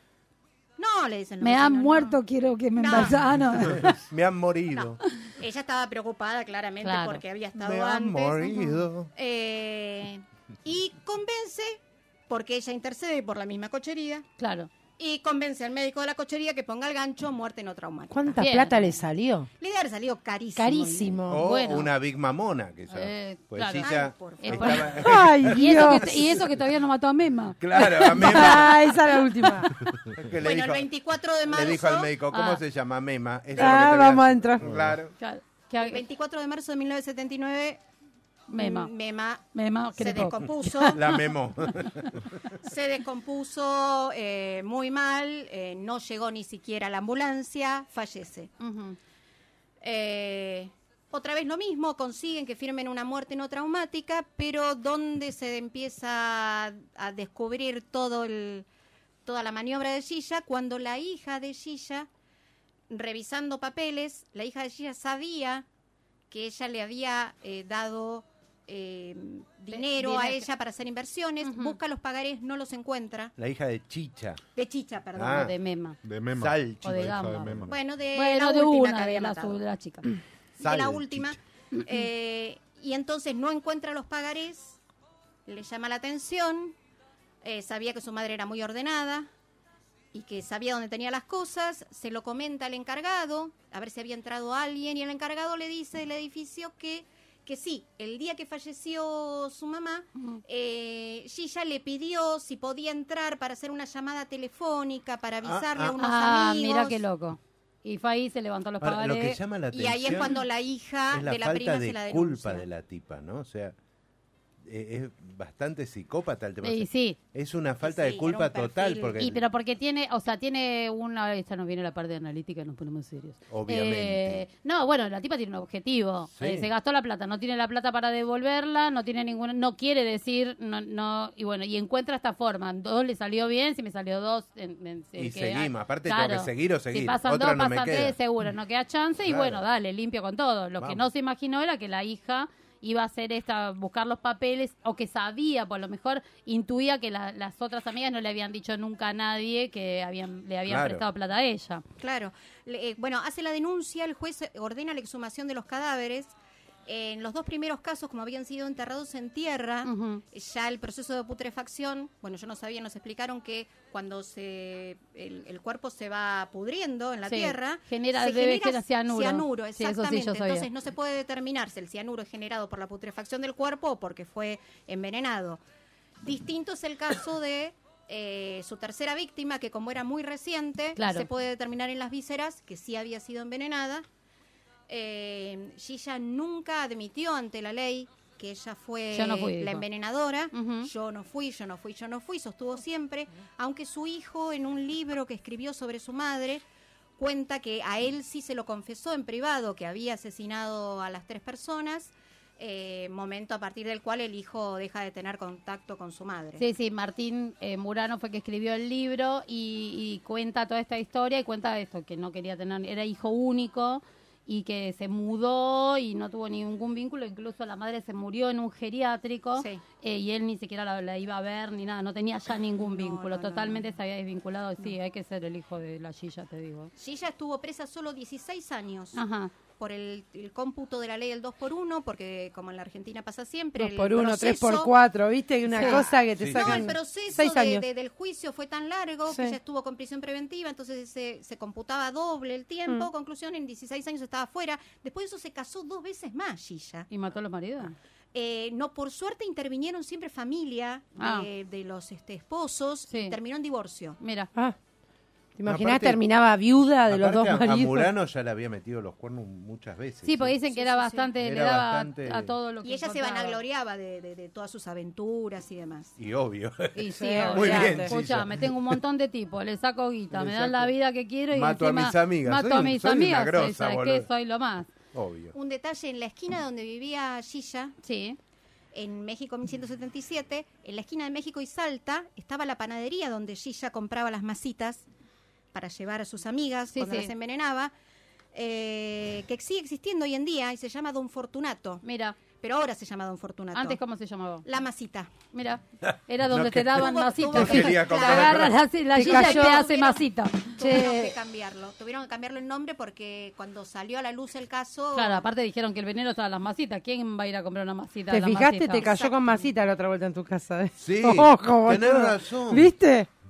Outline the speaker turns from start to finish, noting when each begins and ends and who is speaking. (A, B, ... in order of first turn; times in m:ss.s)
0:00.8-0:02.2 A
0:01.4-0:04.0 B
0:02.8-0:03.3 A
0:03.6-0:05.0 C
0:04.7-0:14.2 A
0:06.8-0:07.2 B
0:07.6-0:09.1 C
0:14.4-0:14.7 B
0:15.0-0:18.4 A
0:18.1-0:19.5 D
0:18.4-0:18.9 B
0:19.6-0:21.2 A
0:20.6-0:21.4 D
0:21.3-0:26.4 C
0:21.3-0:21.9 B
0:22.9-0:27.6 B
0:23.8-0:25.0 A
0:25.0-0:26.1 D
0:27.6-0:29.0 C
0:28.0-0:29.8 D
0:29.7-0:30.9 C
0:30.4-0:32.1 A
0:31.5-0:35.1 C
0:32.3-0:32.6 B
0:33.6-0:34.7 D
0:34.6-0:34.9 E
0:35.2-0:36.0 B
0:35.8-0:37.8 A
0:38.5-0:38.9 B
0:38.5-0:39.4 A
0:39.5-0:41.2 B
0:40.0-0:41.0 A
0:40.9-0:42.3 C
0:41.8-0:42.1 B
0:42.6-0:48.5 A
0:48.6-0:49.0 B
0:49.8-0:58.7 A
0:59.2-1:02.1 A
1:02.9-1:05.6 A
1:06.3-1:13.3 A
1:09.7-1:10.5 B
1:11.4-1:11.8 B
1:13.4-1:14.4 C
1:14.6-1:15.5 A
1:15.2-1:15.5 C
1:15.3-1:16.0 B
1:16.0-1:17.7 E
1:16.3-1:17.7 C
1:16.8-1:20.1 B
1:17.7-1:19.6 A
1:20.6-1:24.8 A
1:20.6-1:21.4 C
1:25.5-1:26.8 A
1:27.4-1:29.3 A
1:30.1-1:47.0 A
1:45.4-1:45.9 C
1:46.0-1:49.4 B
1:48.8-1:50.3 C
1:49.7-1:52.6 A
1:51.1-1:53.8 C
1:54.6-1:59.4 C
1:56.6-1:57.2 B
1:57.8-1:59.3 A
1:59.2-2:31.8 B
2:03.5-2:04.4 C
2:06.3-2:06.7 C
2:15.2-2:18.2 C
2:19.2-2:19.6 C
2:20.8-2:21.0 C
2:30.7-2:31.0 C
2:32.0-2:36.3 A
2:36.9-2:55.6 A
2:39.8-2:40.2 B
2:47.3-2:50.7 B
2:56.2-3:04.0 A
3:01.0-3:01.3 B
3:04.9-3:16.6 A
3:09.1-3:09.8 B
3:10.5-3:10.9 B
3:17.2-3:26.6 A
3:26.6-3:46.9 B
3:42.8-3:43.8 A
3:47.0-3:49.2 A
3:49.1-3:49.5 B
3:49.8-3:54.9 A
3:53.8-3:57.8 D
3:55.7-4:07.1 A
3:55.7-3:56.0 B
3:56.4-3:56.8 C
3:59.3-3:59.6 D
4:07.1-4:07.9 B
4:08.3-4:14.2 A
4:11.2-4:11.5 B
4:13.1-4:13.4 B
4:14.2-4:14.5 B
4:15.6-4:18.1 D
4:15.6-4:16.2 C
4:17.1-4:20.6 C
4:20.2-4:23.6 B
4:20.7-4:21.3 A
4:21.4-4:22.5 C
4:22.8-4:26.1 A
4:26.2-4:28.9 C
4:26.9-4:34.9 B
4:27.1-4:28.1 D
4:30.3-4:30.9 C
4:31.5-4:34.3 C
4:35.1-4:35.5 C
4:35.5-4:37.9 A
4:38.0-4:38.4 B
4:38.9-4:45.0 A
4:45.7-4:47.9 A
4:46.9-4:47.3 B
4:48.5-4:54.0 A
4:52.0-4:52.4 B
4:53.7-4:54.6 B
4:54.6-4:55.3 A
4:55.5-5:00.8 B
4:56.1-4:58.8 C
4:56.9-5:05.4 A
4:59.1-4:59.8 D
5:00.8-5:01.3 D
5:05.1-5:09.2 B
5:08.3-5:13.3 D
5:09.0-5:09.7 A
5:11.0-5:12.9 C